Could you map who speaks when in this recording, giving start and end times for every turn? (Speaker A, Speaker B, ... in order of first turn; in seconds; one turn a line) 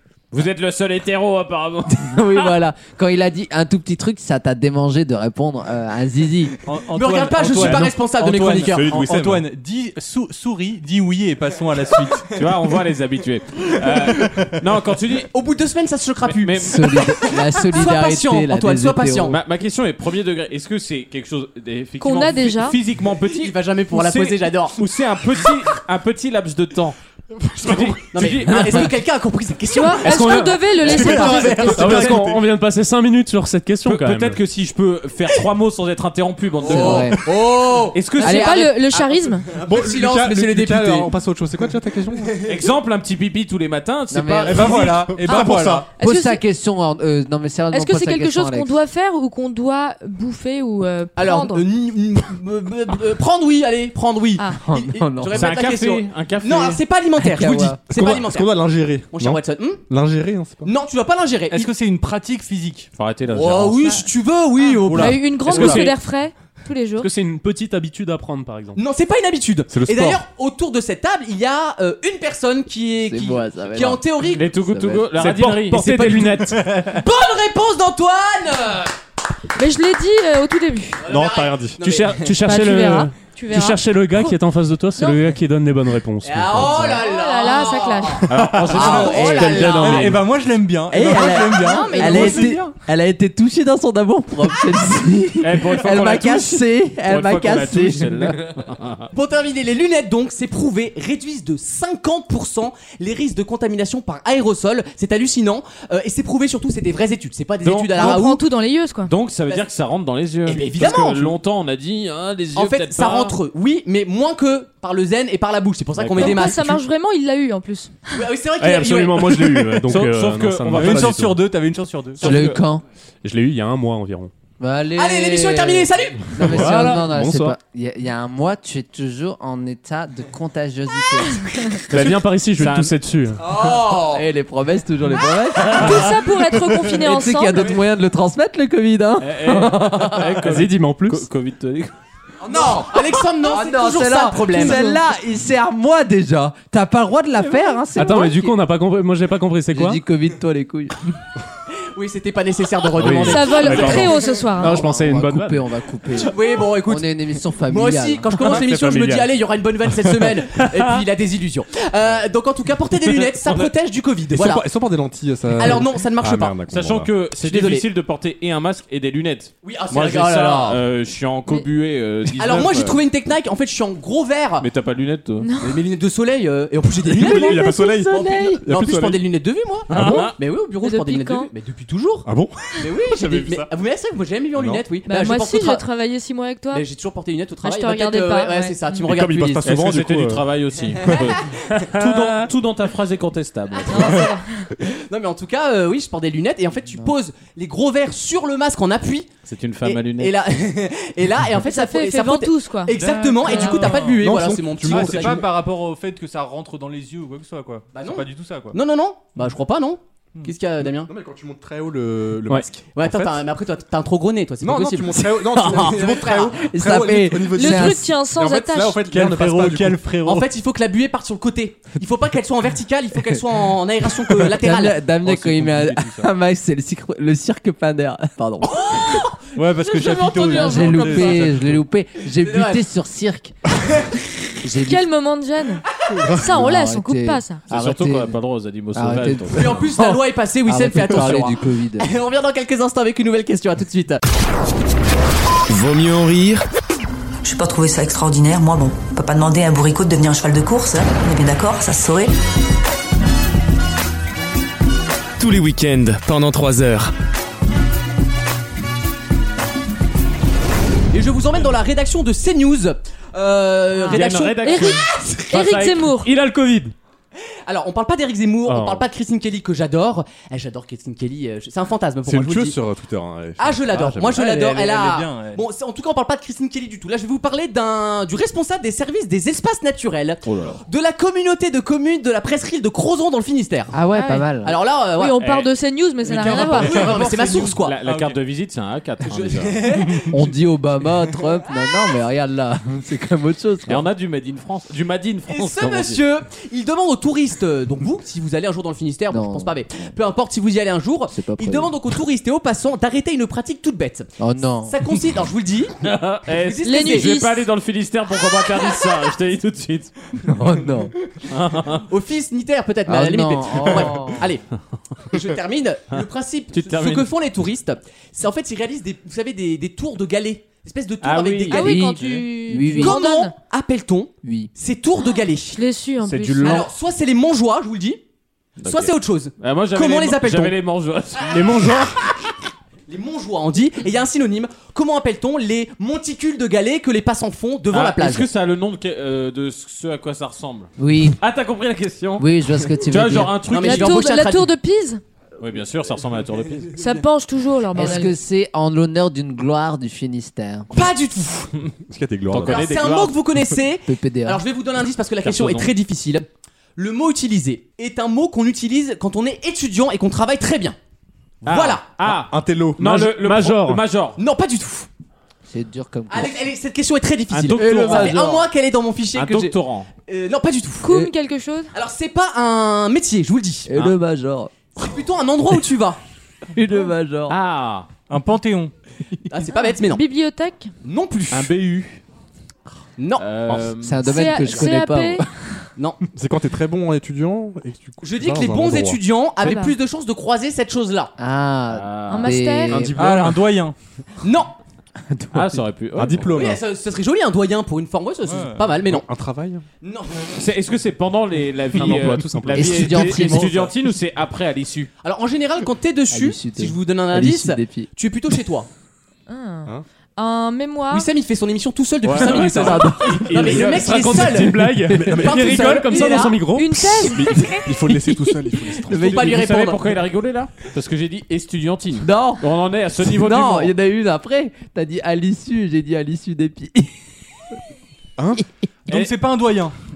Speaker A: 0.3-2.5
Speaker B: 1.9-6.5
Speaker C: 6.6-12.3
Speaker D: 6.9-8.9
Speaker A: 7.6-7.8
Speaker E: 8.4-9.5
Speaker A: 12.3-15.3
Speaker D: 15.3-19.4
Speaker A: 16.2-17.1
Speaker B: 16.6-19.4
Speaker A: 19.2-27.0
Speaker F: 22.0-22.8
Speaker D: 23.2-24.8
Speaker E: 27.4-28.3
Speaker A: 27.6-29.0
Speaker D: 28.1-32.3
Speaker F: 29.7-32.1
Speaker G: 30.0-30.7
Speaker E: 30.7-32.5
Speaker G: 31.7-34.4
Speaker A: 33.8-37.1
Speaker D: 36.6-41.1
Speaker B: 36.6-37.3
Speaker A: 37.9-38.7
Speaker F: 38.2-39.5
Speaker B: 38.2-38.6
Speaker E: 39.6-42.3
Speaker A: 42.4-44.9
Speaker B: 44.1-45.1
Speaker E: 44.5-45.9
Speaker C: 44.5-45.8
Speaker F: 45.3-46.4
Speaker B: 45.8-48.8
Speaker F: 47.7-51.6
Speaker D: 51.2-59.8
Speaker B: 54.6-55.6
Speaker A: 55.3-56.8
Speaker B: 57.2-57.8
Speaker E: 57.9-60.7
Speaker D: 60.6-61.7
Speaker C: 61.5-62.9
Speaker A: 62.9-63.8
Speaker D: 63.3-65.8
Speaker F: 63.8-64.1
Speaker F: 64.6-67.1
Speaker C: 64.9-65.8
Speaker A: 65.4-66.0
Speaker G: 67.0-68.8
Speaker D: 68.8-74.5
Speaker E: 69.7-70.2
Speaker B: 73.0-75.1
Speaker A: 74.3-76.2
Speaker G: 75.1-76.6
Speaker D: 75.2-78.9
Speaker C: 76.6-76.9
Speaker F: 79.6-81.0
Speaker D: 81.0-82.4
Speaker E: 81.0-81.8
Speaker G: 81.8-86.9
Speaker F: 82.4-84.3
Speaker F: 85.0-85.2
Speaker D: 86.2-90.2
Speaker F: 86.8-88.2
Speaker A: 88.3-90.0
Speaker B: 88.8-90.0
Speaker G: 89.4-90.1
Speaker C: 89.7-92.6
Speaker B: 90.9-98.4
Speaker D: 91.0-92.7
Speaker F: 91.5-92.5
Speaker A: 95.4-99.1
Speaker D: 99.1-108.4
Speaker A: 107.6-108.2
Speaker F: 108.0-109.1
Speaker A: 109.0-113.3
Speaker D: 110.4-111.4
Speaker D: 112.5-116.8
Speaker A: 116.0-116.5
Speaker F: 116.2-118.0
Speaker D: 118.1-119.8
Speaker G: 118.6-121.4
Speaker A: 119.9-121.2
Speaker C: 120.7-122.3
Speaker A: 122.2-122.6
Speaker B: 122.2-122.8
Speaker G: 123.2-124.3
Speaker B: 124.6-131.8
Speaker D: 125.0-127.0
Speaker G: 126.4-127.5
Speaker G: 131.9-133.4
Speaker A: 132.6-132.9
Speaker D: 133.4-134.2
Speaker B: 133.7-140.3
Speaker F: 135.6-137.7
Speaker A: 139.2-141.9
Speaker G: 140.1-141.3
Speaker D: 142.4-144.9
Speaker B: 142.5-148.6
Speaker F: 144.5-145.0
Speaker G: 147.9-150.0
Speaker B: 149.7-150.9
Speaker D: 151.9-154.5
Speaker G: 152.9-155.6
Speaker F: 153.2-154.8
Speaker B: 154.6-158.3
Speaker D: 156.2-157.1
Speaker D: 157.6-164.7
Speaker G: 158.4-159.3
Speaker G: 160.6-161.0
Speaker A: 163.4-163.7
Speaker E: 164.3-167.1
Speaker D: 165.6-166.6
Speaker A: 166.7-173.0
Speaker D: 167.4-167.9
Speaker D: 169.6-170.8
Speaker D: 172.4-174.7
Speaker A: 174.6-175.5
Speaker F: 175.4-175.8
Speaker D: 175.6-185.8
Speaker E: 177.0-179.3
Speaker F: 177.2-178.0
Speaker A: 179.9-180.3
Speaker E: 179.9-180.3
Speaker F: 180.8-181.5
Speaker E: 182.2-183.6
Speaker G: 183.2-183.5
Speaker E: 184.5-184.8
Speaker F: 185.1-186.8
Speaker D: 186.7-189.7
Speaker F: 187.6-189.1
Speaker E: 189.0-190.5
Speaker A: 189.6-194.2
Speaker D: 191.0-192.3
Speaker D: 193.7-199.3
Speaker F: 193.9-194.7
Speaker A: 199.4-200.3
Speaker D: 199.8-205.5
Speaker F: 201.6-204.1
Speaker C: 202.9-204.2
Speaker E: 204.0-205.5
Speaker C: 204.8-208.8
Speaker D: 207.9-211.1
Speaker E: 210.8-213.4
Speaker D: 212.9-216.7
Speaker E: 214.6-220.1
Speaker B: 216.6-218.1
Speaker F: 217.5-219.0
Speaker C: 219.0-220.5
Speaker D: 220.2-225.1
Speaker B: 224.5-229.2
Speaker C: 225.3-225.8
Speaker C: 229.5-231.8
Speaker A: 230.0-231.2
Speaker F: 230.0-231.0
Speaker B: 230.5-233.6
Speaker D: 232.4-232.8
Speaker B: 234.6-235.1
Speaker F: 234.8-237.6
Speaker B: 236.2-238.4
Speaker A: 237.7-239.8
Speaker B: 238.9-242.1
Speaker D: 239.5-244.2
Speaker H: 245.7-246.7
Speaker I: 247.4-252.3
Speaker H: 255.4-257.1
Speaker D: 261.1-265.4
Speaker F: 263.9-266.3
Speaker A: 264.1-266.1
Speaker G: 266.2-266.9
Speaker D: 267.6-272.8
Speaker G: 268.6-269.1
Speaker E: 272.2-274.4
Speaker D: 273.6-284.0
Speaker C: 273.9-275.6
Speaker A: 280.4-280.8
Speaker B: 283.9-284.8
Speaker F: 284.1-284.5
Speaker D: 284.6-285.4
Speaker F: 285.2-287.2
Speaker A: 285.4-285.7
Speaker C: 286.2-288.4
Speaker D: 286.4-288.0
Speaker A: 287.0-289.8
Speaker D: 289.3-290.3
Speaker C: 289.9-290.4
Speaker B: 290.3-294.1
Speaker A: 293.9-296.2
Speaker D: 295.5-304.3
Speaker B: 299.3-300.1
Speaker B: 301.3-301.9
Speaker B: 304.4-305.0
Speaker D: 304.8-305.9
Speaker A: 306.0-310.1
Speaker D: 306.5-307.3
Speaker F: 306.8-307.6
Speaker B: 310.4-311.1
Speaker A: 311.5-312.1
Speaker D: 312.0-314.6
Speaker B: 313.1-314.4
Speaker D: 315.3-322.1
Speaker A: 316.7-317.3
Speaker A: 321.2-322.4
Speaker F: 321.7-323.5
Speaker B: 321.8-323.2
Speaker D: 322.9-325.8
Speaker B: 324.4-324.7
Speaker F: 325.7-326.8
Speaker G: 326.2-326.8
Speaker A: 326.3-326.7
Speaker D: 326.6-328.2
Speaker A: 328.8-332.1
Speaker D: 328.8-330.8
Speaker D: 331.5-331.8
Speaker D: 333.1-338.5
Speaker A: 337.9-344.1
Speaker B: 341.0-341.4
Speaker B: 342.4-343.5
Speaker D: 343.7-344.7
Speaker F: 343.8-345.2
Speaker A: 345.6-347.0
Speaker F: 347.0-348.3
Speaker B: 347.9-350.9
Speaker D: 350.9-351.7
Speaker E: 352.1-352.9
Speaker A: 352.5-353.4
Speaker D: 352.6-361.0
Speaker B: 354.1-354.6
Speaker A: 355.4-355.9
Speaker A: 361.6-364.4
Speaker D: 361.6-362.1
Speaker E: 362.3-363.2
Speaker G: 363.0-364.0
Speaker D: 364.4-365.1
Speaker B: 365.7-366.6
Speaker D: 366.3-371.3
Speaker A: 367.5-368.4
Speaker B: 367.7-368.7
Speaker A: 369.3-370.1
Speaker F: 371.0-371.9
Speaker D: 371.9-373.9
Speaker B: 373.9-374.7
Speaker D: 375.0-376.2
Speaker B: 376.7-377.6
Speaker A: 377.5-378.1
Speaker C: 378.3-378.9
Speaker D: 379.5-380.2
Speaker F: 379.7-380.9
Speaker D: 381.0-381.7
Speaker A: 381.5-382.2
Speaker D: 383.2-383.9
Speaker A: 383.4-384.5
Speaker B: 384.0-385.5
Speaker F: 384.2-385.4
Speaker D: 386.0-386.2
Speaker E: 386.3-389.2
Speaker D: 388.2-391.3
Speaker F: 389.6-389.9
Speaker B: 391.4-393.2
Speaker A: 391.9-392.6
Speaker F: 392.3-393.1
Speaker E: 392.9-393.6
Speaker C: 392.9-393.9
Speaker D: 394.4-394.7
Speaker A: 395.5-396.5
Speaker E: 396.1-396.8
Speaker D: 396.5-399.2
Speaker C: 398.4-398.9
Speaker E: 399.0-399.8
Speaker D: 400.0-400.6
Speaker A: 400.6-405.1
Speaker E: 401.9-403.3
Speaker B: 402.7-403.9
Speaker C: 403.3-403.9
Speaker D: 405.2-408.9
Speaker B: 406.3-408.1
Speaker F: 409.5-411.3
Speaker D: 411.1-416.6
Speaker A: 412.3-413.9
Speaker G: 412.6-417.0
Speaker B: 412.7-413.5
Speaker E: 415.0-416.0
Speaker F: 416.1-417.9
Speaker E: 417.0-419.6
Speaker D: 419.0-420.2
Speaker A: 419.1-423.9
Speaker B: 422.2-427.1
Speaker E: 428.4-428.6
Speaker C: 429.1-429.9